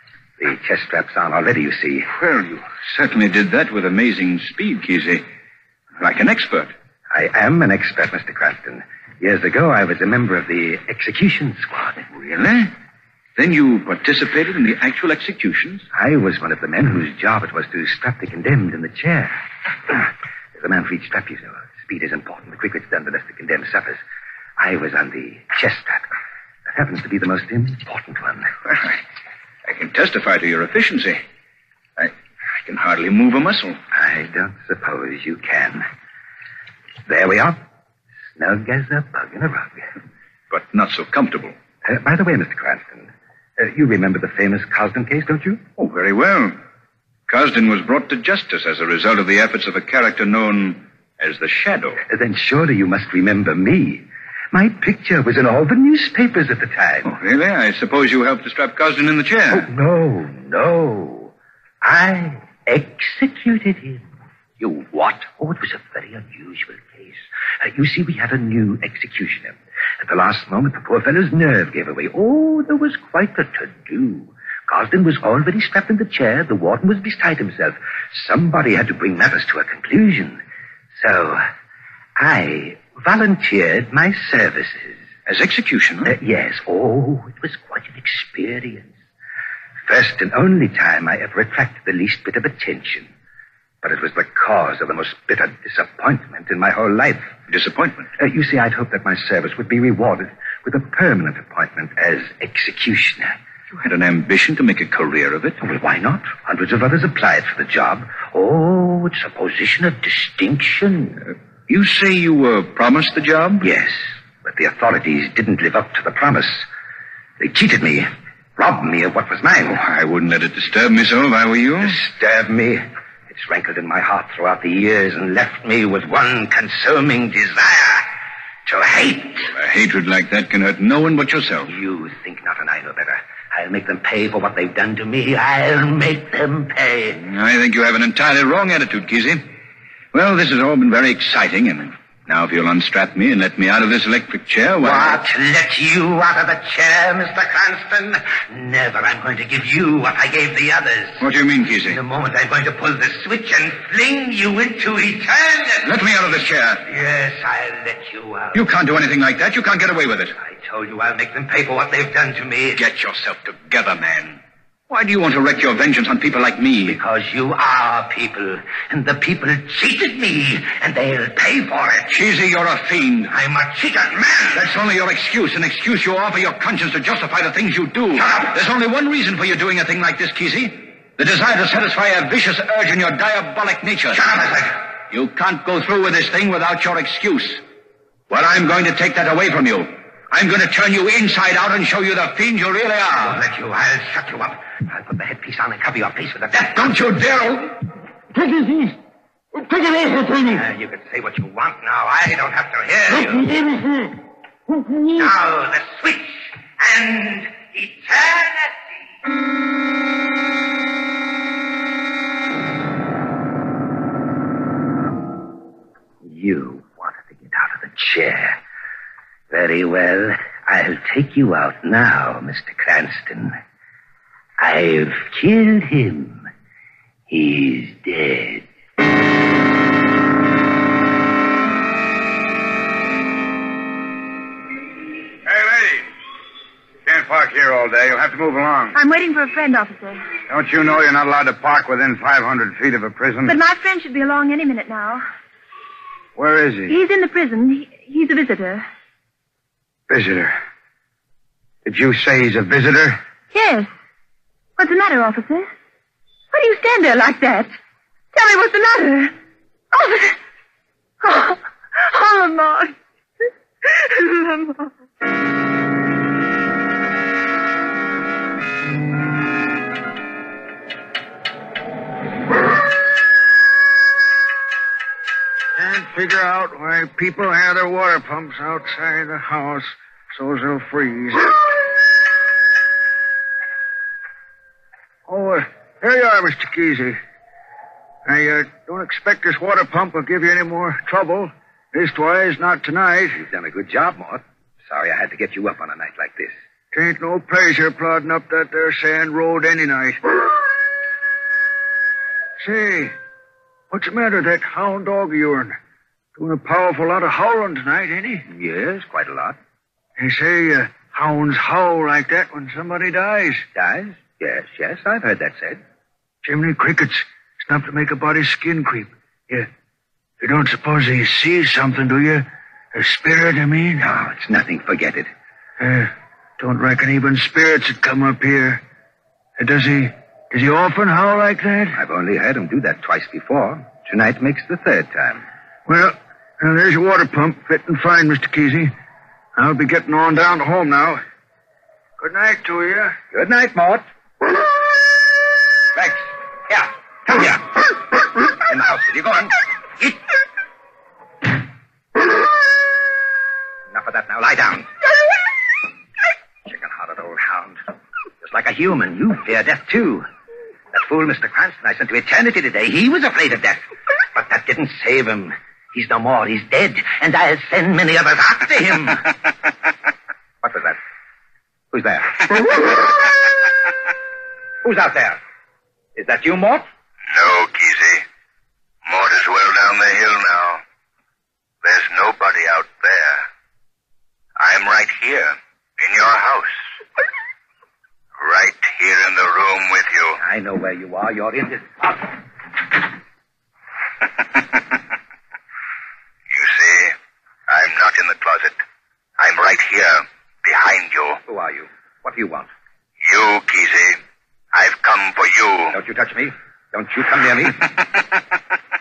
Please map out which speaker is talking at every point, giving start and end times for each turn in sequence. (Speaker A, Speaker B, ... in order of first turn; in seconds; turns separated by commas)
Speaker A: 0.4-2.1, Speaker B: 2.2-5.2, Speaker B: 6.0-6.7, Speaker A: 7.1-12.1, Speaker B: 12.1-12.7, Speaker B: 13.4-15.8, Speaker A: 15.9-19.4, Speaker A: 19.9-24.0, Speaker A: 24.6-26.1, Speaker A: 26.7-28.5, Speaker B: 29.7-31.2, Speaker B: 32.7-33.8, Speaker A: 33.9-35.9, Speaker A: 37.1-37.6, Speaker A: 38.4-39.9, Speaker B: 40.5-41.5, Speaker A: 41.8-45.6, Speaker B: 45.8-46.6, Speaker B: 47.3-52.0, Speaker A: 52.0-57.1, Speaker B: 57.0-59.7, Speaker A: 59.5-64.0, Speaker A: 64.6-80.4, Speaker A: 81.0-81.4, Speaker A: 82.2-85.0, Speaker B: 85.3-86.1, Speaker A: 86.0-88.9, Speaker A: 89.9-93.1, Speaker A: 93.8-97.3, Speaker B: 97.5-98.1, Speaker A: 98.2-103.4, Speaker B: 103.7-105.6, Speaker A: 105.6-111.2, Speaker B: 111.7-113.7, Speaker A: 113.6-116.7, Speaker A: 117.4-119.8, Speaker B: 119.7-122.0, Speaker A: 121.8-129.5, Speaker B: 129.5-131.7, Speaker A: 131.7-137.2, Speaker B: 137.2-139.4, Speaker B: 140.1-145.2, Speaker A: 144.8-151.2, Speaker B: 151.2-152.0, Speaker A: 151.9-156.0, Speaker B: 155.8-156.8, Speaker A: 156.8-158.6, Speaker B: 158.6-160.4, Speaker A: 160.4-162.8, Speaker B: 162.8-167.0, Speaker A: 166.8-172.2, Speaker B: 172.1-173.3, Speaker A: 173.3-174.6, Speaker B: 174.5-184.2, Speaker A: 178.2-178.5, Speaker A: 184.1-184.8, Speaker B: 185.1-187.6, Speaker B: 188.3-193.4, Speaker A: 193.2-197.0, Speaker B: 196.8-197.7, Speaker A: 200.4-203.6, Speaker A: 205.1-208.9, Speaker A: 216.2-218.6, Speaker A: 219.5-223.6, Speaker A: 224.6-226.5, Speaker A: 227.3-228.6, Speaker C: 235.5-236.0, Speaker C: 237.1-238.9, Speaker D: 238.9-240.3, Speaker C: 240.5-243.5, Speaker D: 243.4-245.2, Speaker C: 246.4-246.9, Speaker D: 246.9-248.9, Speaker C: 250.1-250.6, Speaker C: 251.8-253.2, Speaker D: 253.5-253.9, Speaker D: 254.8-255.7, Speaker D: 256.5-257.7, Speaker D: 258.3-259.3, Speaker D: 259.9-260.4, Speaker D: 261.2-263.0, Speaker D: 263.9-264.9, Speaker E: 275.8-281.6, Speaker E: 285.3-287.2, Speaker E: 288.2-293.4, Speaker A: 293.4-296.5, Speaker E: 296.9-300.2, Speaker E: 302.6-303.2, Speaker E: 303.9-305.8, Speaker E: 306.4-308.5, Speaker A: 308.5-309.6, Speaker E: 310.2-313.6, Speaker A: 313.8-315.8, Speaker E: 316.4-319.7, Speaker E: 320.4-324.1, Speaker A: 324.0-325.3, Speaker E: 325.8-328.8, Speaker E: 329.6-332.0, Speaker A: 331.9-335.4, Speaker E: 335.9-338.9, Speaker E: 339.6-341.2, Speaker E: 342.2-343.1, Speaker A: 343.3-344.0, Speaker A: 345.9-348.0, Speaker A: 348.6-350.2, Speaker A: 353.9-354.9, Speaker A: 356.7-357.8, Speaker A: 358.4-360.3, Speaker A: 360.9-369.3, Speaker A: 370.6-371.0, Speaker A: 371.9-373.2, Speaker A: 374.8-375.4, Speaker A: 376.2-376.9, Speaker F: 377.3-378.2, Speaker F: 379.1-380.8, Speaker F: 381.8-383.4, Speaker F: 384.6-386.7, Speaker F: 388.4-390.4, Speaker A: 390.4-392.2, Speaker F: 396.5-397.1, Speaker F: 397.7-398.8, Speaker F: 399.4-401.4, Speaker A: 401.4-402.7, Speaker F: 403.2-404.2, Speaker F: 404.7-405.9, Speaker A: 405.9-407.9